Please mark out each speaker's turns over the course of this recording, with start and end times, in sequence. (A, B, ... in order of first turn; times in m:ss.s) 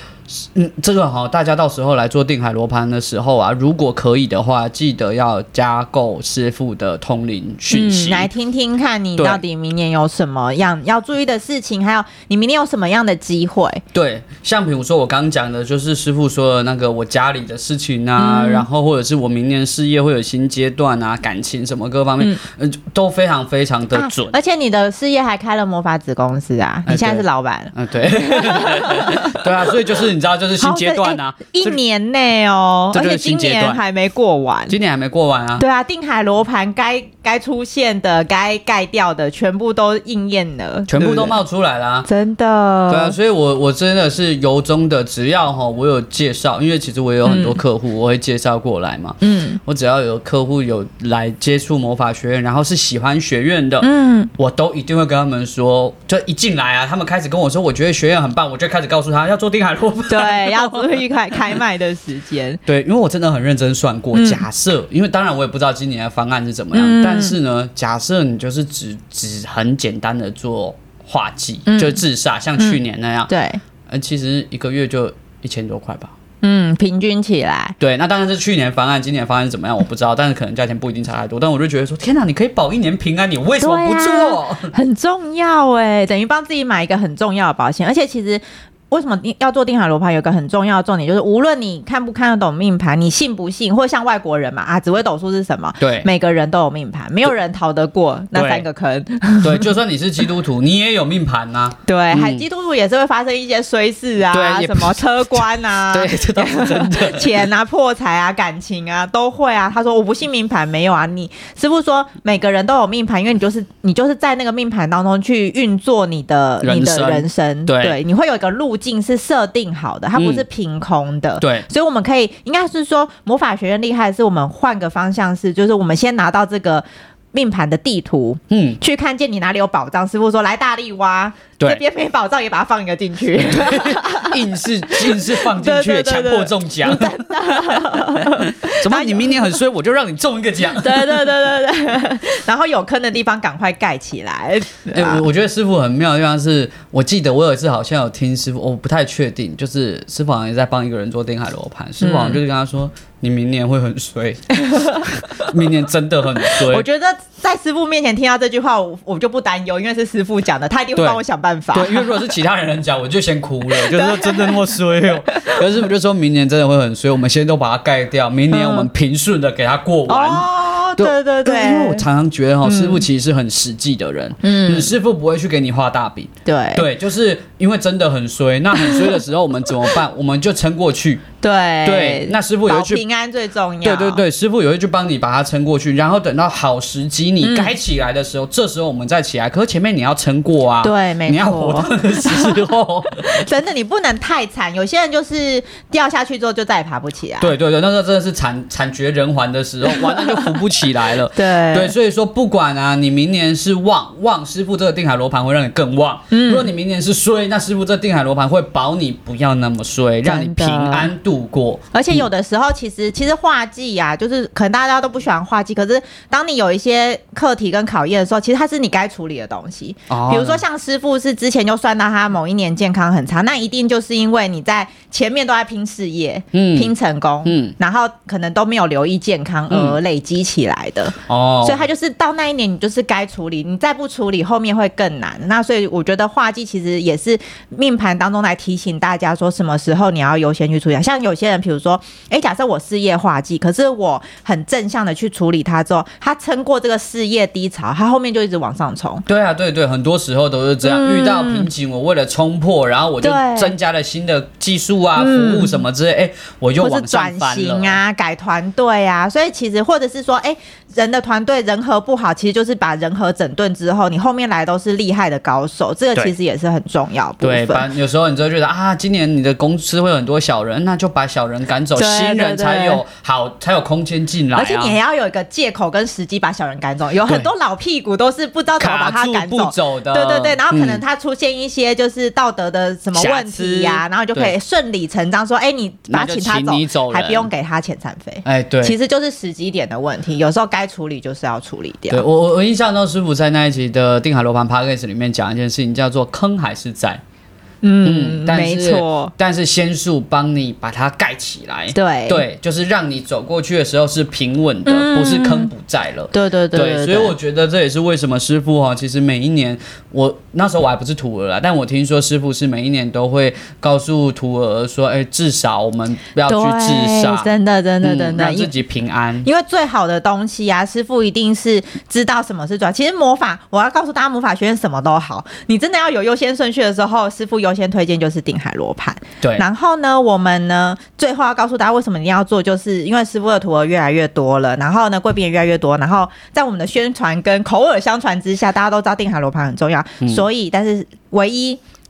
0:00.3-0:08.3 A
0:07.7-0:13.8 B
0:13.9-0:24.4 A
0:18.2-0:18.7 B
0:23.9-0:29.4 B
0:26.9-0:31.8 A
0:30.6-0:34.8 B
0:32.9-0:33.8 A
0:34.7-0:35.6 A
0:35.6-0:41.4 B
0:40.9-0:42.1 A
0:42.1-0:43.2 B
0:42.9-1:01.6 A
0:47.2-0:47.6 B
0:49.2-0:49.6 B
0:53.8-0:54.3 B
1:00.1-1:02.6 B
1:02.6-1:13.3 A
1:04.1-1:04.4 B
1:06.7-1:07.4 B
1:11.6-1:12.0 B
1:12.6-1:13.6 B
1:13.9-1:16.1 A
1:16.4-1:17.8 B
1:17.8-1:24.7 A
1:23.6-1:39.7 B
1:35.8-1:36.1 A
1:38.3-1:38.6 A
1:39.4-1:42.4 A
1:41.9-2:14.4 B
1:44.3-1:47.4 A
1:56.6-1:58.0 A
2:00.2-2:00.4 A
2:01.4-2:01.6 A
2:08.5-2:08.8 A
2:13.4-2:21.3 A
2:14.9-2:19.6 B
2:20.8-2:25.2 B
2:24.9-2:36.9 A
2:32.0-2:32.4 B
2:34.6-2:35.5 B
2:36.5-2:42.2 B
2:41.0-2:41.2 A
2:41.7-3:01.2 A
2:43.7-2:45.6 B
2:48.5-2:48.9 B
2:50.1-2:52.1 B
2:52.6-2:53.0 B
2:54.4-2:54.9 B
2:56.4-2:56.9 B
3:01.4-3:04.2 B
3:01.8-3:03.0 A
3:03.8-3:13.4 A
3:07.4-3:07.7 B
3:10.8-3:17.5 B
3:17.4-3:32.2 A
3:19.9-3:20.6 B
3:21.3-3:21.9 B
3:26.3-3:26.7 B
3:30.2-3:31.1 B
3:31.9-4:09.2 B
3:40.1-3:40.6 A
3:46.5-3:46.9 A
3:47.4-3:47.7 A
3:49.7-3:50.0 A
3:51.3-3:51.8 A
4:09.3-4:18.0 A
4:10.8-4:11.7 B
4:13.2-4:13.7 B
4:15.2-4:15.8 B
4:16.8-4:27.9 B
4:27.4-4:35.0 A
4:31.9-4:33.0 B
4:34.5-4:52.2 B
4:37.3-4:37.5 A
4:38.8-4:41.0 A
4:43.1-4:44.5 A
4:46.1-4:47.5 A
4:48.4-4:49.0 A
4:52.1-4:57.2 A
4:57.8-4:59.3 B
4:58.0-5:19.4 A
5:01.9-5:02.4 B
5:04.9-5:05.7 B
5:06.3-5:07.4 B
5:16.5-5:18.7 B
5:19.4-5:41.8 B